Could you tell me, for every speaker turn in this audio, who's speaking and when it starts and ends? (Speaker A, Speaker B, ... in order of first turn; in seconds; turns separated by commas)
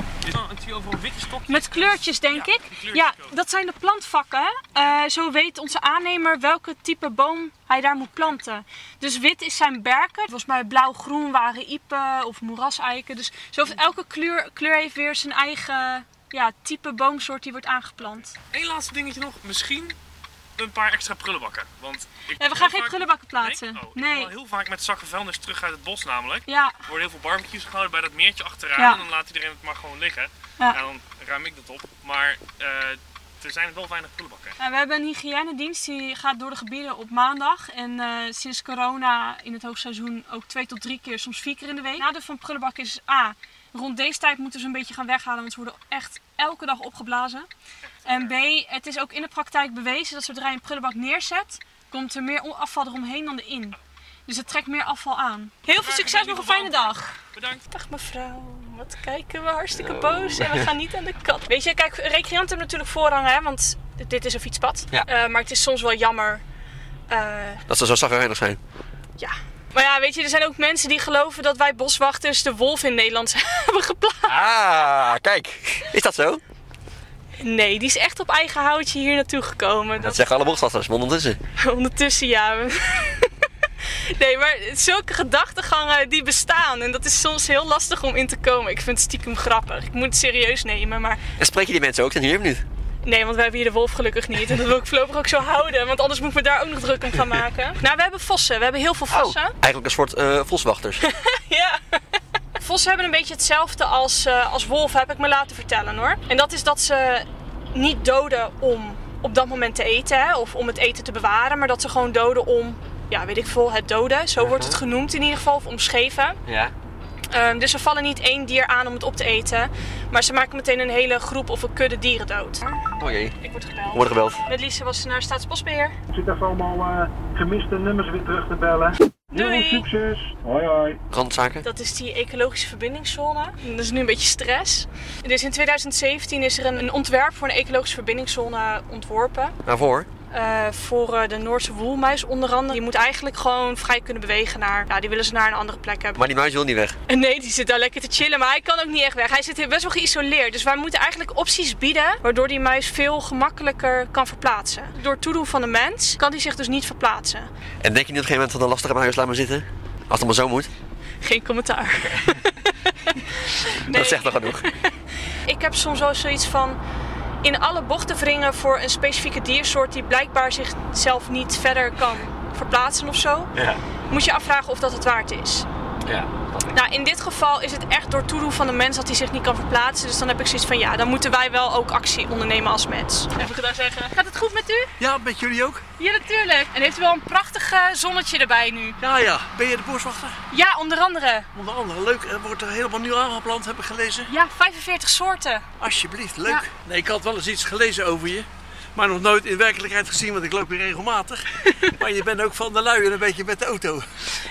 Speaker A: 0.2-3.3, Speaker B: 1.5-18.4, Speaker A: 18.5-19.9, Speaker A: 20.6-34.6, Speaker B: 22.4-24.3, Speaker B: 26.5-26.8, Speaker B: 28.8-29.0, Speaker B: 34.6-47.5, Speaker B: 48.0-57.1, Speaker A: 55.7-57.6, Speaker B: 57.7-66.4, Speaker C: 59.8-60.7, Speaker B: 67.1-67.6, Speaker C: 67.7-68.6, Speaker B: 69.2-74.4, Speaker C: 74.2-76.4, Speaker B: 77.4-80.6, Speaker C: 80.0-81.4, Speaker B: 81.6-91.2, Speaker C: 91.4-92.6, Speaker B: 93.0-99.5, Speaker C: 99.1-101.0, Speaker B: 101.0-102.0, Speaker B: 102.6-116.4, Speaker C: 114.4-114.8, Speaker C: 116.5-116.7, Speaker B: 117.3-122.8, Speaker C: 123.0-123.3, Speaker B: 123.4-126.0, Speaker C: 123.9-124.4, Speaker D: 126.1-130.9, Speaker B: 129.3-129.9, Speaker C: 131.1-131.7, Speaker B: 131.6-139.6, Speaker C: 139.7-140.1, Speaker B: 140.3-146.2, Speaker C: 146.2-146.9, Speaker B: 147.1-157.5, Speaker C: 157.8-160.7, Speaker B: 161.2-164.9, Speaker C: 163.9-164.6, Speaker B: 165.4-166.8, Speaker B: 167.4-173.5, Speaker C: 173.5-173.8, Speaker B: 174.1-175.7, Speaker C: 176.1-176.8, Speaker B: 176.7-184.9, Speaker E: 185.0-185.8, Speaker B: 186.0-189.0, Speaker E: 189.0-190.4, Speaker B: 190.5-191.5, Speaker E: 191.5-194.3, Speaker B: 194.3-195.6, Speaker E: 195.8-204.1, Speaker B: 201.6-201.9